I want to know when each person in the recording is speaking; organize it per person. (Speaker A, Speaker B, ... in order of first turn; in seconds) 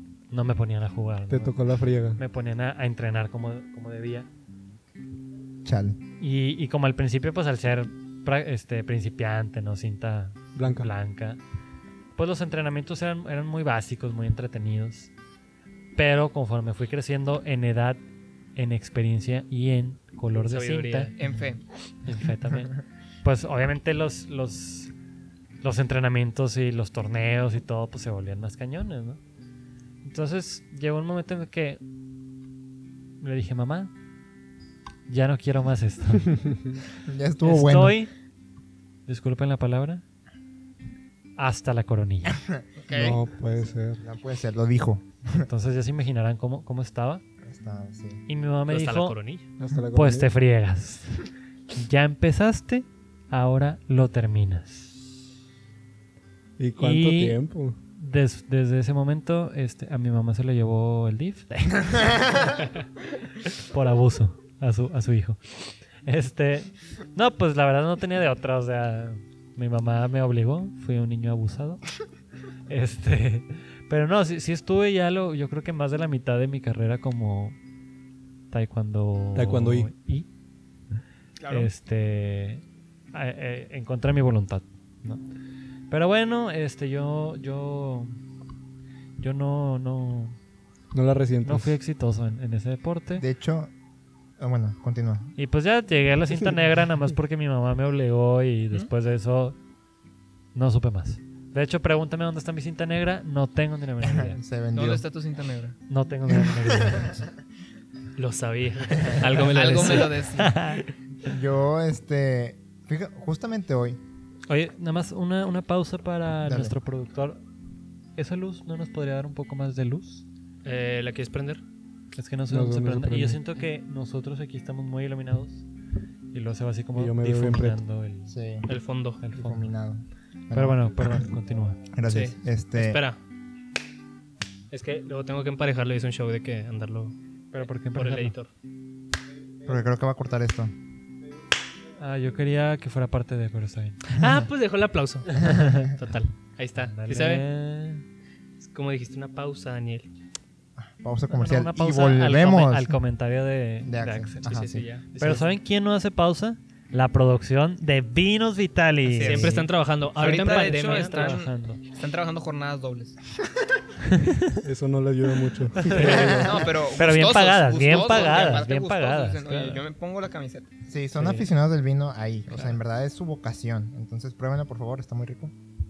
Speaker A: 0.3-1.5, 2.2-4.3, 6.2-11.4, 12.2-15.1, 15.9-18.0, 18.5-21.1, 22.1-24.9, 25.6-29.2, 30.0-31.8, 33.2-33.9, 35.1-36.4, 37.4-38.1, 39.1-40.0, 41.4-42.4, 45.4-47.2, 48.3-49.2, 49.9-55.0, 56.8-57.4, 58.0-62.6, 63.6-71.8, 72.7-77.5, 78.5-80.2, 81.5-85.2, 85.9-88.1, 89.2-90.3, 91.4-93.2, 95.4-99.5, 100.5-104.4, 105.9-107.3, 109.8-110.8, 114.5-117.4, 118.2-120.2, 122.1-125.6, 126.3-128.3, 129.2-129.6, 130.5-131.8, 137.5-138.3, 142.0-144.1, 145.3-145.9, 146.8-148.0, 151.3-154.6, 155.2-161.8, 164.1-164.6, 165.8-169.8, 171.2-171.4
Speaker B: 1.3-2.2, 10.6-10.9, 42.9-44.0, 49.6-50.3, 56.6-57.8, 79.3-79.9, 90.9-91.7, 122.5-123.4, 126.9-127.8, 164.6-166.5
Speaker C: 5.6-6.0, 37.1-38.0, 44.0-45.5, 47.4-48.2, 93.2-93.7, 94.4-95.3, 104.0-105.0, 106.5-107.0, 111.2-114.0, 116.5-116.7, 128.3-128.7, 129.3-131.2, 131.9-133.0, 139.6-140.7, 150.8-153.0, 153.8-154.8, 165.9-166.7, 170.9-175.5
Speaker D: 20.3-21.1, 48.7-49.4, 108.2-110.2, 120.6-121.6, 128.7-129.2, 132.1-133.2, 134.7-137.1, 137.9-138.5, 144.1-147.4, 148.6-150.1, 154.4-155.5, 159.2-161.4
Speaker E: 21.2-21.6, 42.8-43.2, 81.4-81.7, 104.7-105.8, 109.4-110.5, 159.1-163.2, 165.9-170.7